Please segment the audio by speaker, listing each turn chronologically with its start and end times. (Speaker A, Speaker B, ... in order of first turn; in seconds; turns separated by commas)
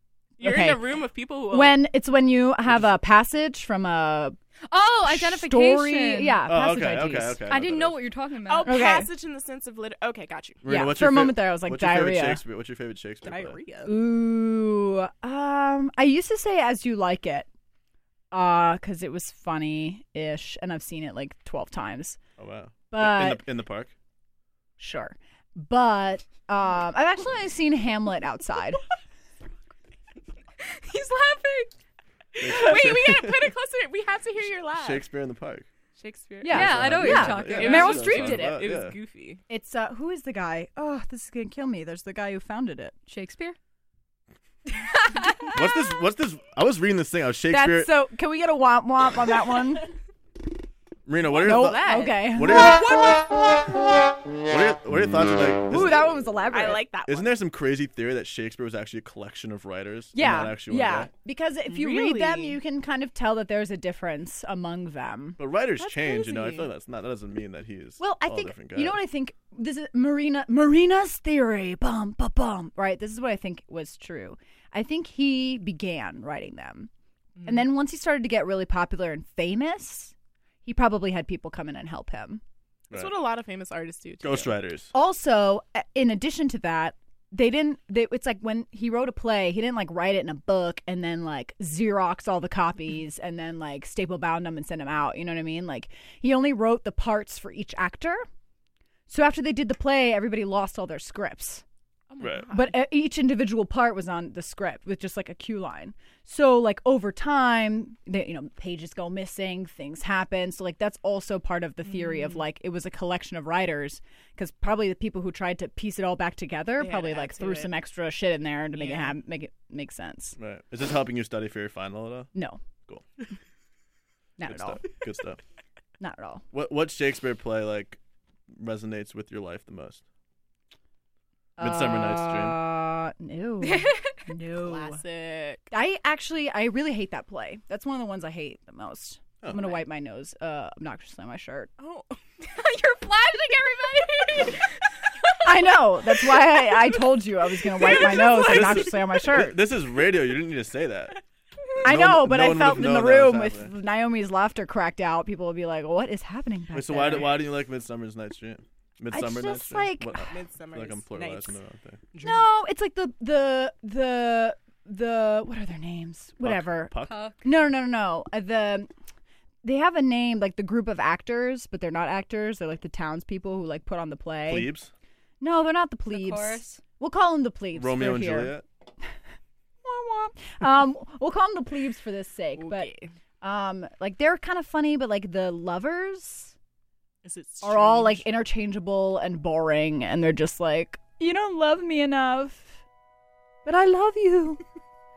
Speaker A: 0.4-1.8, Speaker B: 0.4-0.8, Speaker B: 1.5-4.3, Speaker C: 4.7-6.5, Speaker B: 5.0-7.4, Speaker D: 6.5-8.0, Speaker C: 7.5-8.8, Speaker A: 8.4-10.6, Speaker B: 8.7-9.1, Speaker D: 10.6-13.6, Speaker B: 10.7-12.4, Speaker A: 13.2-14.0, Speaker B: 13.8-17.5, Speaker B: 18.3-22.2, Speaker D: 22.4-23.9, Speaker B: 22.9-23.4, Speaker B: 24.8-28.8, Speaker C: 30.6-31.7, Speaker A: 32.4-35.0, Speaker D: 32.4-33.5, Speaker D: 34.7-35.6, Speaker A: 36.0-36.9, Speaker B: 36.4-38.7, Speaker C: 36.5-38.2, Speaker D: 36.5-39.0, Speaker A: 37.5-39.4, Speaker B: 39.5-43.0, Speaker C: 43.1-43.6, Speaker C: 45.0-45.5, Speaker D: 45.5-47.9, Speaker B: 47.5-49.9, Speaker D: 51.0-53.1, Speaker A: 51.2-53.1, Speaker B: 51.4-53.1, Speaker D: 54.4-56.2, Speaker B: 55.7-56.8, Speaker A: 56.5-57.4, Speaker D: 57.0-61.1, Speaker B: 60.1-65.4, Speaker A: 61.7-62.6, Speaker D: 65.4-69.0, Speaker A: 65.8-66.7, Speaker B: 68.0-76.9, Speaker A: 77.4-77.7, Speaker B: 77.4-80.1, Speaker B: 80.6-82.4, Speaker A: 82.9-84.5, Speaker D: 84.2-84.9, Speaker B: 84.9-98.2, Speaker B: 99.1-101.6, Speaker A: 102.1-102.8, Speaker D: 102.2-102.5, Speaker B: 102.5-120.4, Speaker A: 116.8-117.7, Speaker A: 118.7-119.2, Speaker D: 120.4-122.3, Speaker B: 122.3-122.6, Speaker B: 124.4-124.8, Speaker D: 124.4-125.4, Speaker B: 126.0-126.4, Speaker D: 126.5-128.0, Speaker D: 128.5-130.0, Speaker B: 131.6-135.0, Speaker D: 131.6-132.6, Speaker C: 133.6-134.2, Speaker A: 134.6-135.6, Speaker B: 135.7-141.7, Speaker A: 139.5-139.8, Speaker A: 141.8-142.2, Speaker C: 142.4-144.6, Speaker B: 145.4-149.6, Speaker C: 147.9-148.3, Speaker D: 148.3-151.1, Speaker D: 151.8-153.7, Speaker B: 151.8-157.4, Speaker D: 156.7-162.0, Speaker B: 159.1-160.3, Speaker A: 160.3-161.6, Speaker A: 162.1-162.5, Speaker B: 162.2-168.9, Speaker D: 166.4-167.2, Speaker C: 167.0-167.4, Speaker B: 169.6-174.7, Speaker D: 174.5-174.9, Speaker B: 175.4-178.6, Speaker C: 176.1-176.8, Speaker D: 177.7-178.6, Speaker B: 179.8-182.9, Speaker A: 182.6-183.1, Speaker B: 183.4-186.5, Speaker A: 187.2-188.3, Speaker B: 187.6-192.8, Speaker B: 193.6-194.6